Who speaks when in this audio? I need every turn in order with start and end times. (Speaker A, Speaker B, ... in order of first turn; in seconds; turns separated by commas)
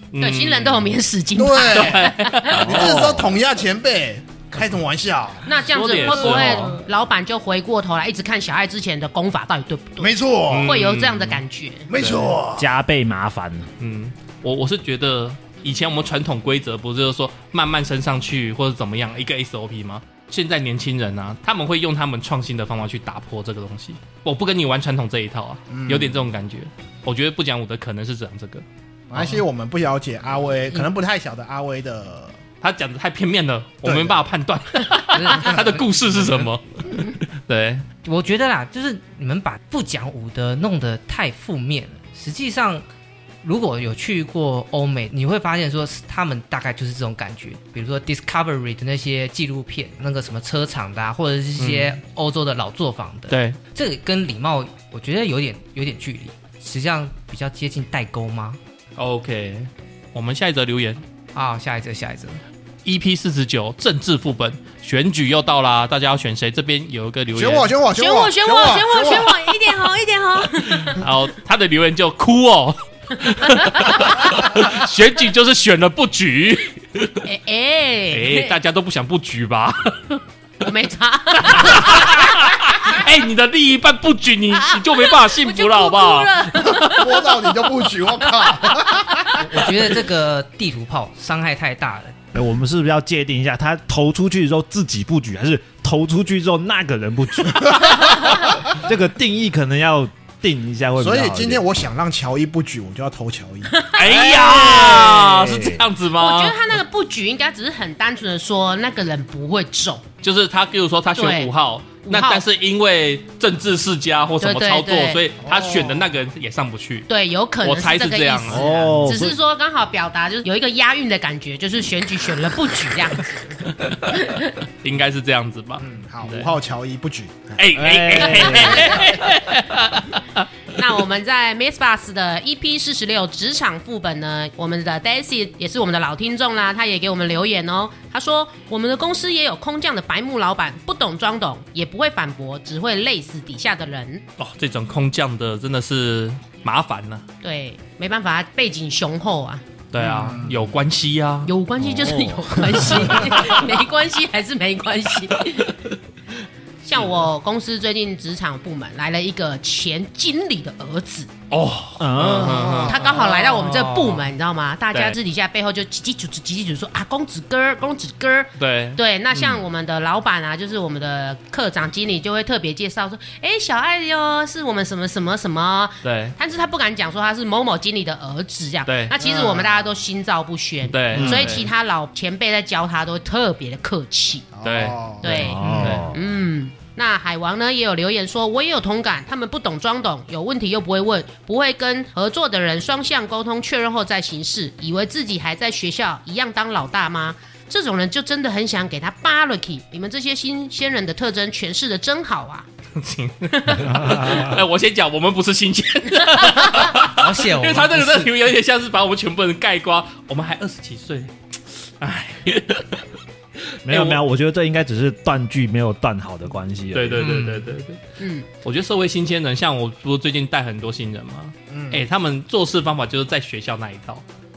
Speaker A: 0.1-0.9, Speaker B: 0.2-2.8, Speaker C: 1.4-5.5, Speaker A: 1.7-3.2, Speaker D: 2.8-3.2, Speaker B: 5.5-11.9, Speaker A: 5.7-6.8, Speaker C: 6.2-6.5, Speaker C: 10.0-10.8, Speaker A: 10.5-11.4, Speaker C: 11.9-12.7, Speaker A: 11.9-12.4, Speaker D: 12.6-13.7, Speaker A: 13.8-28.6, Speaker C: 25.7-26.2, Speaker C: 29.1-32.3, Speaker A: 32.6-37.8, Speaker C: 33.8-34.2, Speaker E: 35.1-35.9, Speaker E: 38.0-42.9, Speaker E: 43.4-58.6, Speaker A: 51.6-52.0, Speaker A: 53.3-53.6, Speaker A: 59.0-61.0, Speaker E: 61.4-62.4, Speaker A: 62.9-67.7, Speaker C: 67.3-69.5, Speaker B: 68.0-71.0, Speaker A: 70.6-77.2, Speaker B: 73.3-74.2, Speaker B: 77.2-78.6, Speaker A: 78.1-80.2, Speaker B: 80.6-83.0, Speaker A: 81.4-87.0, Speaker B: 84.7-87.3, Speaker C: 87.0-89.4, Speaker E: 89.4-92.2, Speaker D: 92.3-101.7, Speaker C: 101.0-103.8, Speaker B: 103.7-104.8, Speaker A: 103.9-106.6, Speaker D: 104.0-105.9, Speaker B: 106.2-110.0, Speaker A: 110.2-117.1, Speaker B: 111.1-111.5, Speaker B: 112.0-112.4, Speaker B: 114.4-115.2, Speaker C: 115.4-116.1, Speaker B: 117.1-124.5, Speaker A: 117.6-118.7, Speaker D: 118.5-119.4, Speaker A: 123.8-124.3, Speaker A: 124.8-126.5, Speaker C: 125.8-127.6, Speaker A: 127.6-130.5, Speaker D: 127.8-129.0, Speaker B: 128.4-129.1, Speaker B: 130.7-144.2, Speaker A: 144.4-147.2, Speaker B: 147.4-149.6, Speaker A: 149.9-151.5, Speaker C: 150.0-150.8, Speaker B: 151.5-155.7, Speaker D: 151.8-153.4, Speaker A: 153.1-153.6, Speaker B: 156.8-161.3, Speaker A: 156.9-157.2, Speaker A: 161.5-164.1, Speaker D: 162.0-162.8, Speaker C: 162.2-163.2, Speaker B: 162.9-184.5, Speaker E: 163.2-164.2, Speaker A: 168.6-169.6, Speaker A: 176.0-176.3, Speaker A: 178.9-179.1, Speaker C: 179.2-179.9, Speaker A: 180.8-181.7, Speaker D: 181.1-181.6, Speaker C: 181.2-181.5, Speaker C: 184.5-186.0, Speaker A: 184.6-186.1, Speaker B: 185.2-202.7, Speaker D: 185.2-186.2, Speaker A: 203.0-211.3, Speaker B: 203.5-204.2, Speaker D: 203.8-204.6, Speaker B: 206.2-206.9, Speaker E: 206.9-208.3, Speaker A: 212.0-213.1, Speaker A: 213.8-214.2, Speaker D: 213.9-217.3, Speaker A: 216.9-218.0, Speaker E: 217.2-217.8, Speaker B: 218.2-218.5, Speaker A: 218.6-224.2, Speaker C: 221.7-222.0